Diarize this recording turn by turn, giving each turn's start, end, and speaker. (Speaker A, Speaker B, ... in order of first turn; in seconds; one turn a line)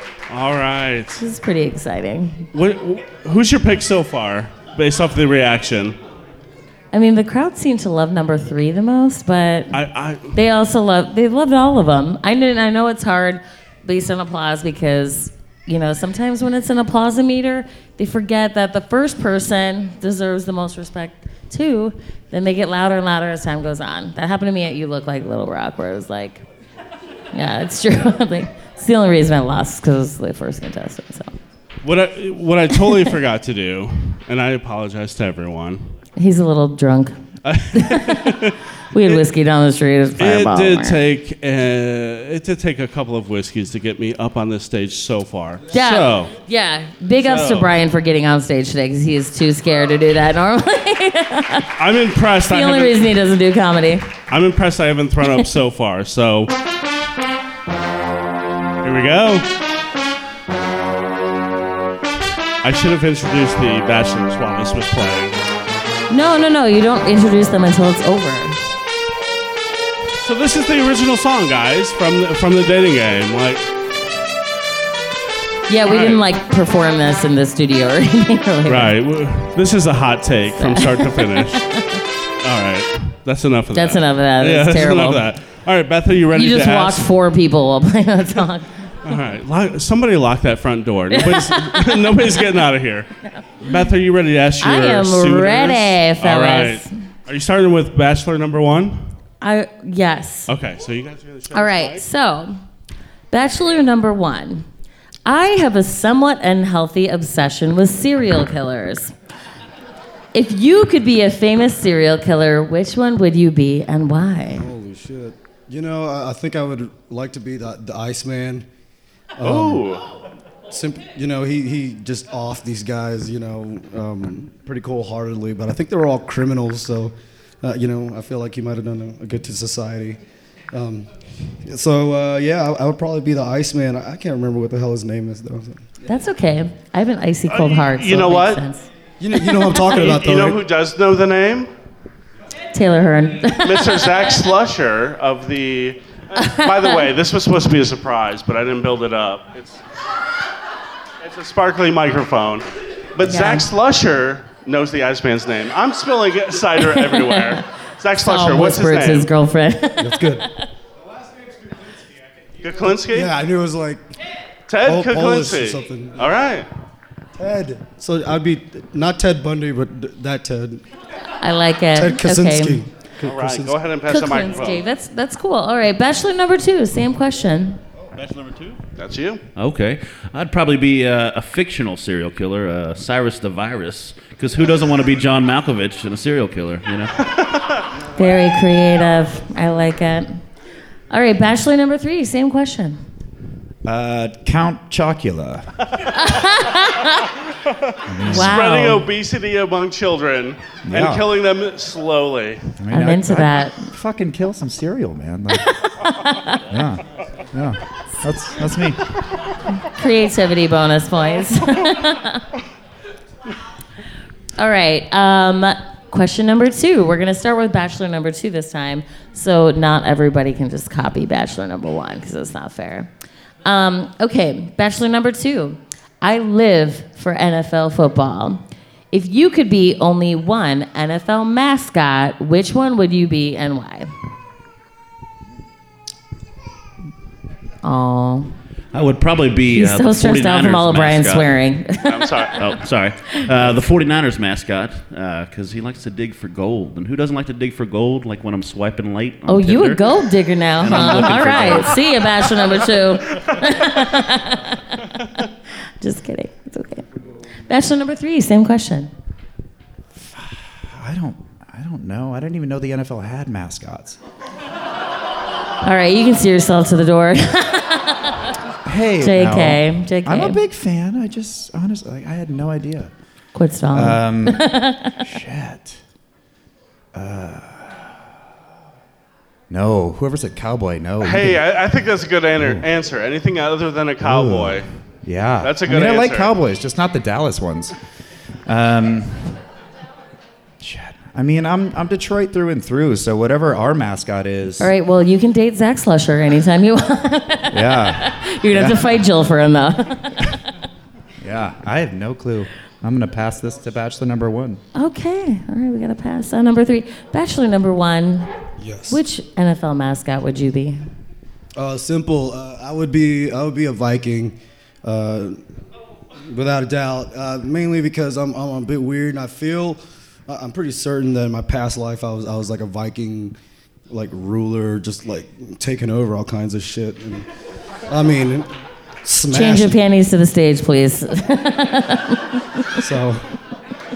Speaker A: 0.3-1.2
Speaker B: 1.2-2.5
Speaker A: 2.5-6.0
Speaker B: 6.9-9.8
Speaker A: 9.7-10.4
Speaker B: 10.3-26.4
Speaker B: 27.3-31.3
Speaker A: 31.8-35.9
Speaker B: 32.7-33.1
Speaker B: 36.1-37.2
Speaker A: 37.4-39.2
Speaker B: 37.7-41.0
Speaker A: 40.2-46.3
Speaker B: 45.7-51.7
Speaker A: 47.2-47.7
Speaker A: 51.8-53.1
Speaker B: 52.5-54.1
Speaker A: 54.3-56.5
Speaker A: 58.8-59.5
Speaker A: 62.6-65.4
Speaker B: 66.1-68.6
Speaker A: 70.2-73.6
Speaker B: 75.7-78.9
Speaker A: 75.8-76.2
Speaker A: 78.7-81.6
Speaker B: 80.5-82.0
Speaker A: 82.4-87.0
Speaker B: 83.7-85.2
Speaker B: 86.3-88.7
Speaker A: 89.0-99.1
Speaker B: 91.1-92.1
Speaker B: 94.6-96.9
Speaker B: 99.4-100.5
Speaker A: 100.5-102.0
Speaker B: 101.5-102.6
Speaker B: 103.3-104.7
Speaker B: 105.2-109.1
Speaker B: 110.3-114.7
Speaker C: 114.5-118.7
Speaker C: 119.4-119.9
Speaker A: 119.4-120.0
Speaker C: 120.7-130.2
Speaker C: 130.7-131.1
Speaker C: 131.6-135.8
Speaker B: 136.1-138.9
Speaker A: 137.5-138.6
Speaker C: 139.2-140.6
Speaker A: 139.6-141.7
Speaker B: 142.7-144.2
Speaker A: 143.6-149.8
Speaker B: 146.4-147.0
Speaker A: 151.2-159.3
Speaker B: 153.2-153.7
Speaker B: 156.8-157.6
Speaker B: 158.2-160.2
Speaker C: 160.0-160.4
Speaker A: 162.6-163.3
Speaker C: 163.0-164.0
Speaker A: 164.7-166.7
Speaker C: 164.8-166.2
Speaker C: 167.3-170.8
Speaker B: 171.4-172.8
Speaker C: 171.9-173.7
Speaker A: 173.2-174.8
Speaker B: 174.1-177.8
Speaker D: 178.1-178.8
Speaker A: 179.0-179.4
Speaker D: 179.6-187.1
Speaker A: 187.4-187.6
Speaker B: 188.2-190.4
Speaker B: 191.1-193.0
Speaker E: 193.8-195.8
Speaker B: 196.1-197.2
Speaker A: 197.7-202.7
Speaker E: 198.1-198.6
Speaker B: 198.2-199.1
Speaker E: 200.8-201.3
Speaker E: 202.8-205.7
Speaker B: 202.9-203.9
Speaker B: 205.6-206.6
Speaker E: 206.7-209.0
Speaker B: 209.8-212.4
Speaker B: 214.6-223.1
Speaker B: 223.6-234.1
Speaker B: 237.8-238.5
Speaker D: 238.9-241.5
Speaker B: 239.7-242.4
Speaker A: 242.1-242.6
Speaker D: 242.6-250.2
Speaker B: 249.5-255.1
Speaker D: 250.8-252.1
Speaker B: 256.0-257.1
Speaker B: 257.7-259.1
Speaker E: 260.1-264.2
Speaker B: 265.8-268.5
Speaker E: 268.8-273.1
Speaker B: 269.2-270.6
Speaker B: 273.5-275.2
Speaker E: 273.9-276.0
Speaker E: 277.1-278.2
Speaker E: 279.7-281.6
Speaker A: 281.2-284.9
Speaker E: 282.6-282.8
Speaker E: 284.2-287.9
Speaker A: 285.6-286.5
Speaker E: 288.6-289.6
Speaker E: 290.8-294.9
Speaker B: 294.8-300.4
Speaker E: 297.7-299.1
Speaker E: 301.4-304.8
Speaker B: 304.9-308.5
Speaker C: 308.8-309.2
Speaker B: 309.1-311.0
Speaker C: 311.8-315.6
Speaker C: 316.5-323.5
Speaker C: 324.1-327.5
Speaker C: 328.1-328.7
Speaker C: 329.2-330.0
Speaker B: 329.5-333.0
Speaker C: 333.0-333.4